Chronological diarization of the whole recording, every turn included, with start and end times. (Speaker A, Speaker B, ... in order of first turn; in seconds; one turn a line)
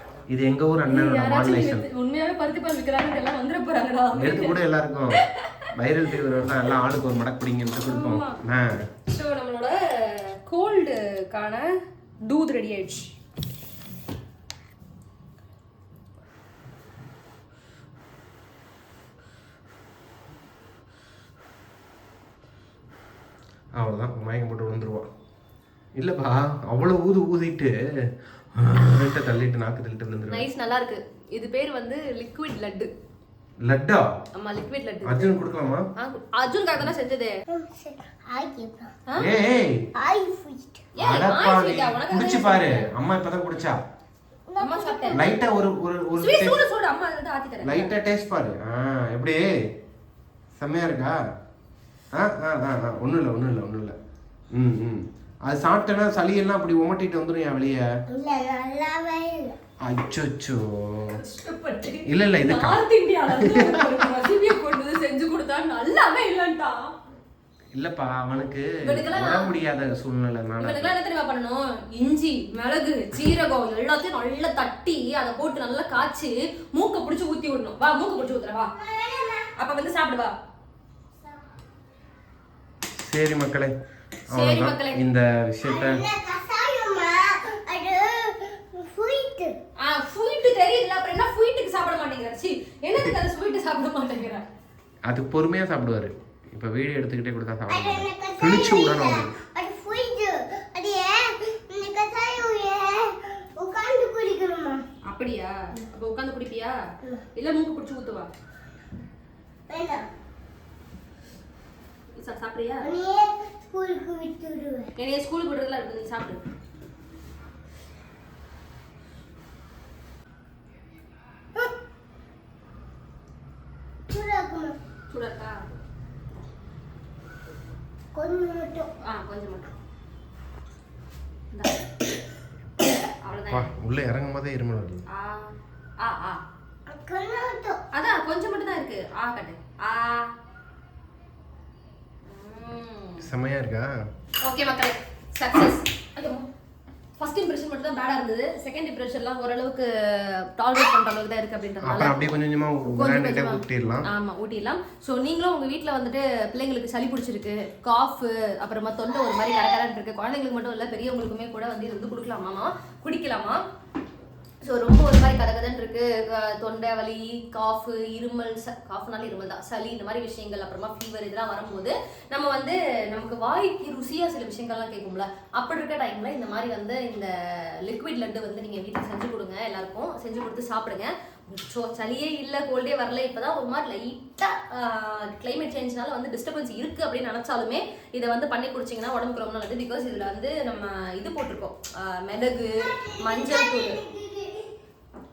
Speaker A: 0.3-1.9
Speaker B: 0.9-4.6
Speaker A: 4.1-8.8
Speaker B: 5.2-5.7
Speaker B: 7.8-8.4
Speaker B: 9.1-11.7
Speaker B: 12.2-13.1
Speaker A: 23.8-25.1
Speaker A: 26.0-27.8
Speaker A: 28.6-30.5
Speaker B: 30.3-32.9
Speaker A: 33.6-34.0
Speaker B: 34.4-35.4
Speaker A: 35.0-35.9
Speaker B: 36.0-37.4
Speaker C: 37.5-38.9
Speaker A: 39.2-39.8
Speaker C: 40.0-40.9
Speaker B: 41.0-42.9
Speaker A: 41.0-43.8
Speaker C: 44.5-45.3
Speaker B: 44.6-45.2
Speaker A: 45.1-46.6
Speaker B: 46.2-47.9
Speaker A: 47.6-49.5
Speaker A: 50.6-51.2
Speaker A: 52.1-54.0
Speaker A: 54.5-57.9
Speaker C: 58.1-59.5
Speaker A: 59.9-61.2
Speaker B: 61.1-66.9
Speaker A: 62.0-64.0
Speaker A: 67.7-71.0
Speaker B: 68.8-69.5
Speaker B: 70.6-78.7
Speaker C: 78.7-79.5
Speaker B: 79.5-80.3
Speaker A: 83.0-83.8
Speaker B: 84.3-85.0
Speaker A: 84.3-86.0
Speaker C: 85.6-89.5
Speaker B: 89.8-94.4
Speaker A: 95.1-99.3
Speaker C: 97.7-104.8
Speaker B: 105.1-106.8
Speaker B: 107.3-108.3
Speaker C: 109.7-110.0
Speaker B: 112.2-112.9
Speaker C: 112.8-114.9
Speaker B: 115.0-116.4
Speaker C: 124.1-124.8
Speaker B: 125.1-125.6
Speaker C: 128.1-128.9
Speaker B: 129.0-129.8
Speaker B: 131.5-131.8
Speaker B: 133.1-133.7
Speaker A: 133.5-135.0
Speaker B: 135.1-136.4
Speaker C: 136.9-137.8
Speaker B: 137.9-140.3
Speaker B: 142.3-143.2
Speaker A: 143.2-143.9
Speaker B: 144.4-146.5
Speaker B: 147.2-152.3
Speaker A: 151.8-154.1
Speaker B: 152.8-163.6
Speaker B: 164.6-194.0
Speaker C: 192.8-194.7